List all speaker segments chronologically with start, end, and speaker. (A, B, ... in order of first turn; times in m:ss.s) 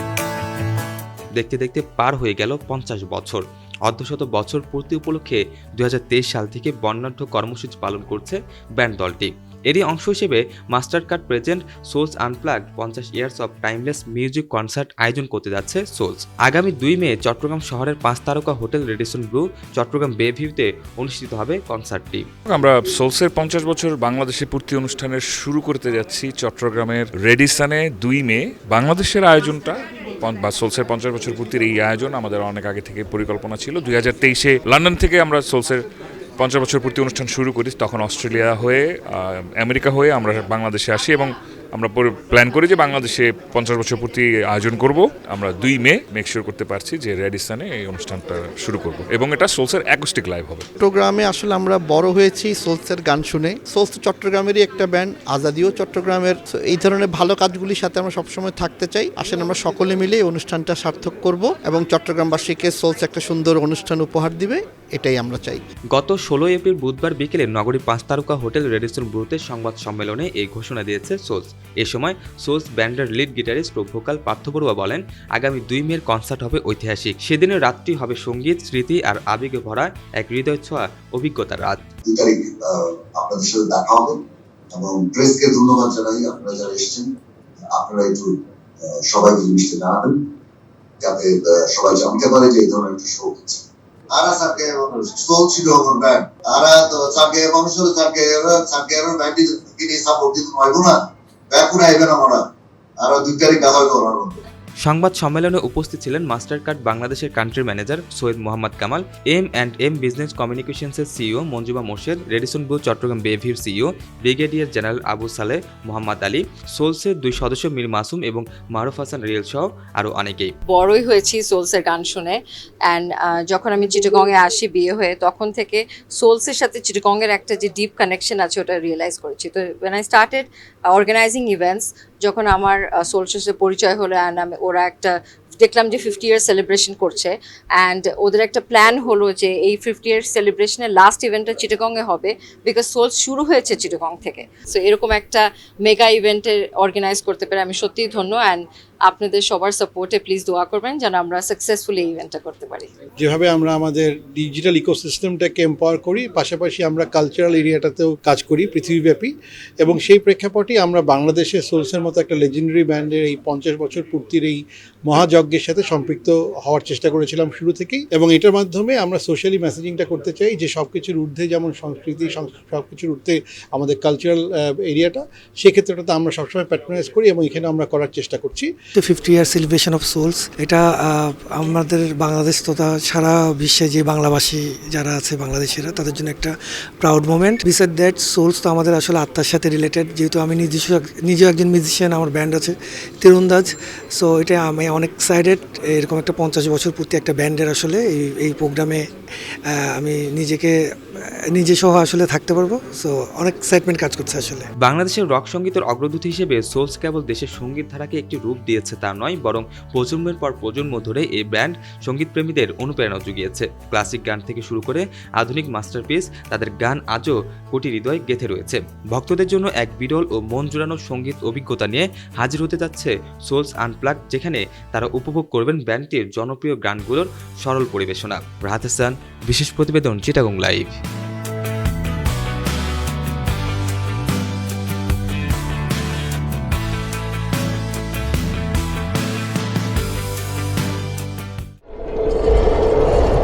0:01.4-0:22.3 A
0:22.5-0:35.8 B
0:36.4-0:50.7 B
0:50.8-1:05.6 C
1:06.0-1:21.8 A
1:22.0-1:24.2 D
1:24.7-1:27.1 D
1:27.6-1:30.2 D
1:31.0-1:41.0 D
1:41.5-1:42.4 D
1:43.0-1:44.4 D
1:44.8-2:00.6 A
2:00.7-2:32.9 E
2:33.2-2:58.7 F
2:59.0-3:19.1 G
3:19.8-3:20.8 G
3:21.5-3:24.7 G
3:24.8-3:51.0 A